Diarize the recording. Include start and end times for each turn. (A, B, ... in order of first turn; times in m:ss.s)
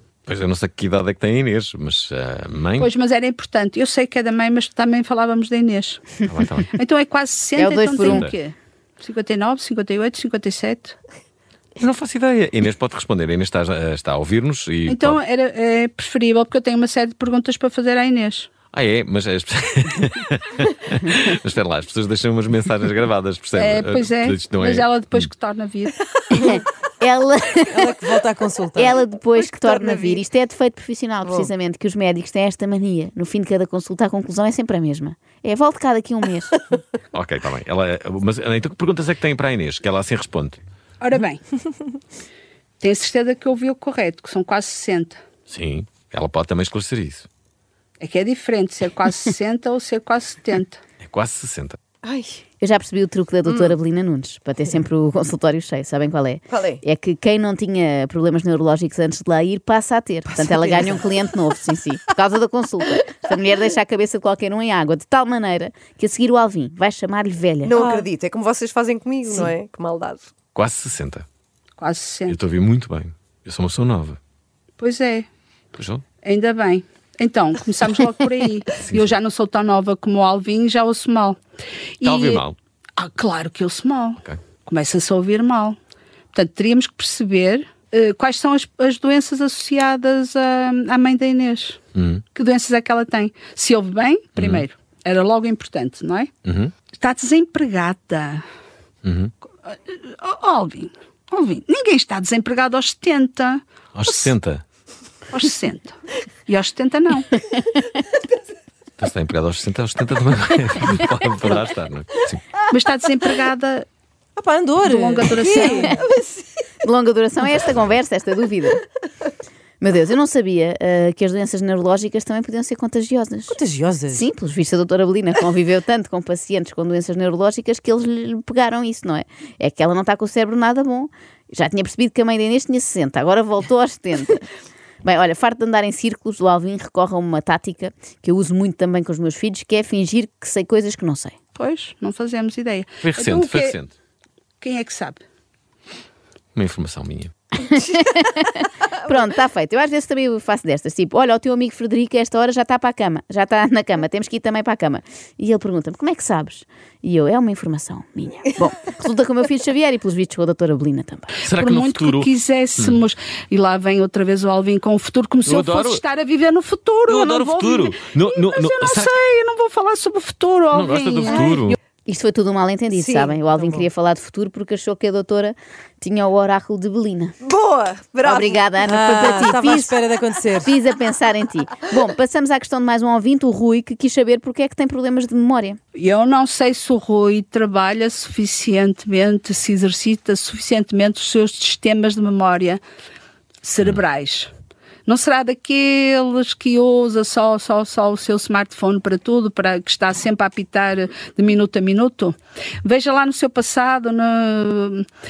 0:00.3-0:02.9 A
0:02.8-0:06.1 B
0:06.2-0:06.7 A
0:06.7-0:11.0 B
0:07.6-0:08.3 C
0:08.0-0:08.4 A
0:11.8-0:15.2 A
0:14.9-0:18.5 B
0:18.7-0:25.3 A
0:23.6-0:26.0 B
0:26.3-0:27.9 C
0:27.7-0:29.0 D
0:28.7-0:36.8 C
0:29.6-0:30.2 E
0:37.1-0:40.6 A
0:41.0-0:41.4 B
0:42.8-0:45.2 B
0:45.5-0:47.3 A
0:48.0-0:50.8 B
0:51.0-0:51.8 A
0:52.0-0:52.4 E
0:52.6-1:07.8 C
0:56.5-0:56.8 E
1:00.3-1:01.0 E
1:07.6-1:10.3 E
1:07.7-1:08.0 D
1:10.5-1:11.2 A
1:11.8-1:12.4 B
1:12.3-1:14.2 A
1:14.8-1:15.3 B
1:15.8-1:16.0 A
1:16.2-1:21.4 B
1:18.8-1:19.2 A
1:22.0-1:22.4 B
1:22.0-1:22.6 A
1:23.0-1:25.8 B
1:26.3-1:31.8 B
1:31.9-1:32.2 A
1:32.3-1:36.3 B
1:34.4-1:34.6 A
1:36.4-1:36.7 A
1:36.9-1:38.4 B
1:39.0-1:39.3 A
1:39.6-1:44.3 B
1:43.9-1:44.6 A
1:45.3-1:47.3 B
1:49.0-1:52.5 A
1:52.7-1:53.9 B
1:54.4-1:56.0 D
1:54.8-1:56.0 B
1:56.0-1:56.4 E
1:56.8-1:58.8 C
1:59.8-2:03.6 C
2:03.5-2:04.3 D
2:04.1-2:14.4 C
2:15.0-2:21.4 C
2:21.5-2:23.8 B
2:23.0-2:23.9 A
2:24.6-2:25.2 B
2:26.6-2:27.3 A
2:27.6-2:41.3 C
2:41.4-2:51.6 B
2:41.4-2:43.0 A
2:45.4-2:46.0 A
2:47.1-2:49.2 A
2:50.7-2:51.8 A
2:52.1-2:57.3 C
2:52.9-2:53.4 E
2:53.5-2:53.8 D
2:57.4-2:58.8 E
2:58.2-3:00.0 C
2:58.8-3:00.7 D
3:00.6-3:05.8 C
3:05.9-3:12.8 B
3:13.6-3:14.5 B
3:15.0-3:25.1 B